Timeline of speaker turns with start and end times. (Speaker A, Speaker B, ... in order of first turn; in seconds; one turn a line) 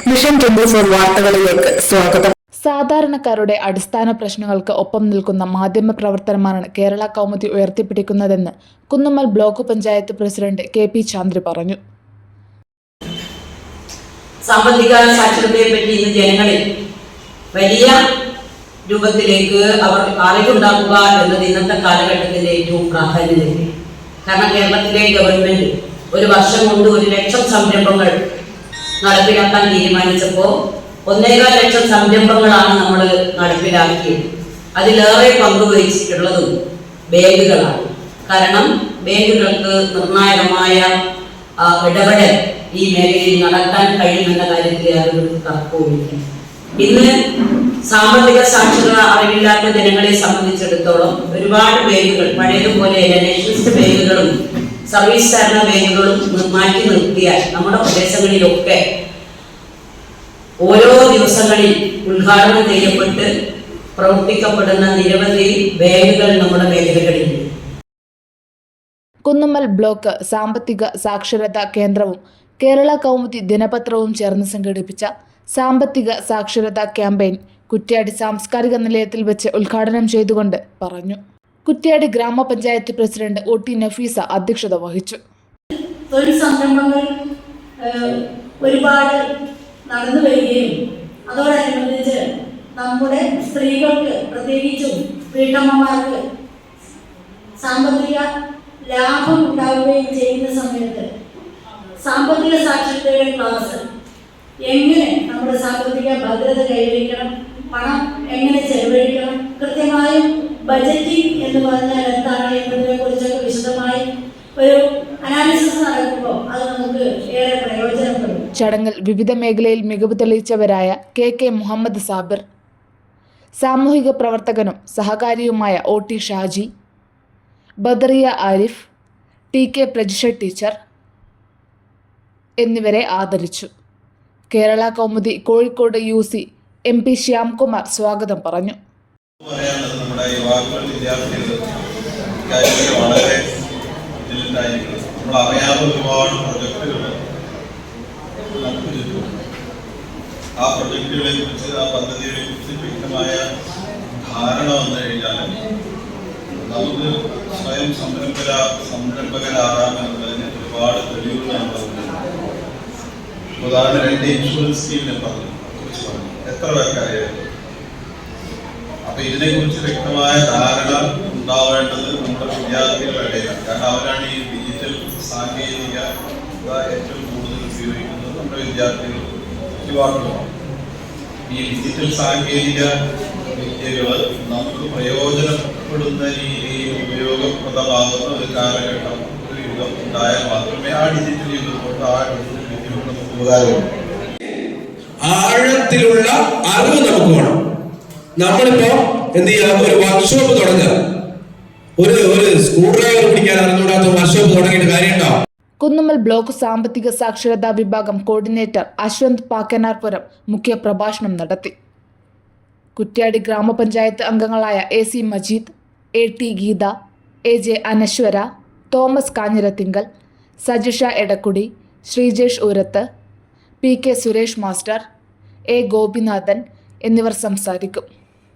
Speaker A: 0.1-2.3
Speaker B: 2.6-11.8
Speaker C: 14.4-16.6
Speaker C: 17.5-18.0
Speaker C: 18.9-23.7
Speaker C: 24.2-28.1
Speaker C: 29.0-30.5
Speaker C: 31.1-34.2
Speaker C: 34.8-36.5
Speaker C: 37.1-40.9
Speaker C: 41.6-46.2
Speaker C: 46.8-47.1
Speaker C: 47.8-54.3
Speaker C: 54.9-58.8
Speaker C: 60.6-63.3
Speaker C: 64.0-67.5
Speaker B: 69.3-85.2
Speaker D: 86.1-87.1
Speaker D: 87.8-89.2
Speaker D: 89.9-90.7
Speaker D: 91.3-92.2
Speaker D: 92.8-96.2
Speaker D: 97.6-98.3
Speaker D: 98.8-101.1
Speaker D: 102.0-103.8
Speaker D: 104.6-114.0
Speaker D: 114.6-118.4
Speaker B: 118.5-122.4
Speaker B: 123.6-126.7
Speaker B: 127.8-128.8
Speaker B: 129.5-130.7
Speaker B: 132.6-133.7
Speaker B: 134.5-138.8
Speaker E: 139.4-141.7
Speaker E: 142.4-143.4
Speaker E: 144.2-147.2
Speaker E: 148.6-149.4
Speaker E: 150.6-153.4
Speaker E: 154.2-155.6
Speaker E: 156.6-162.2
Speaker E: 163.6-167.4
Speaker E: 169.1-176.1
Speaker E: 176.6-179.2
Speaker E: 179.8-180.4
Speaker E: 181.5-182.9
Speaker E: 183.5-193.9
Speaker F: 195.3-197.6
Speaker F: 198.4-200.9
Speaker F: 202.0-205.3
Speaker B: 205.8-211.7
Speaker B: 213.0-216.9
Speaker B: 217.5-220.1
Speaker B: 220.7-223.1
Speaker B: 223.8-225.0
Speaker B: 225.7-228.1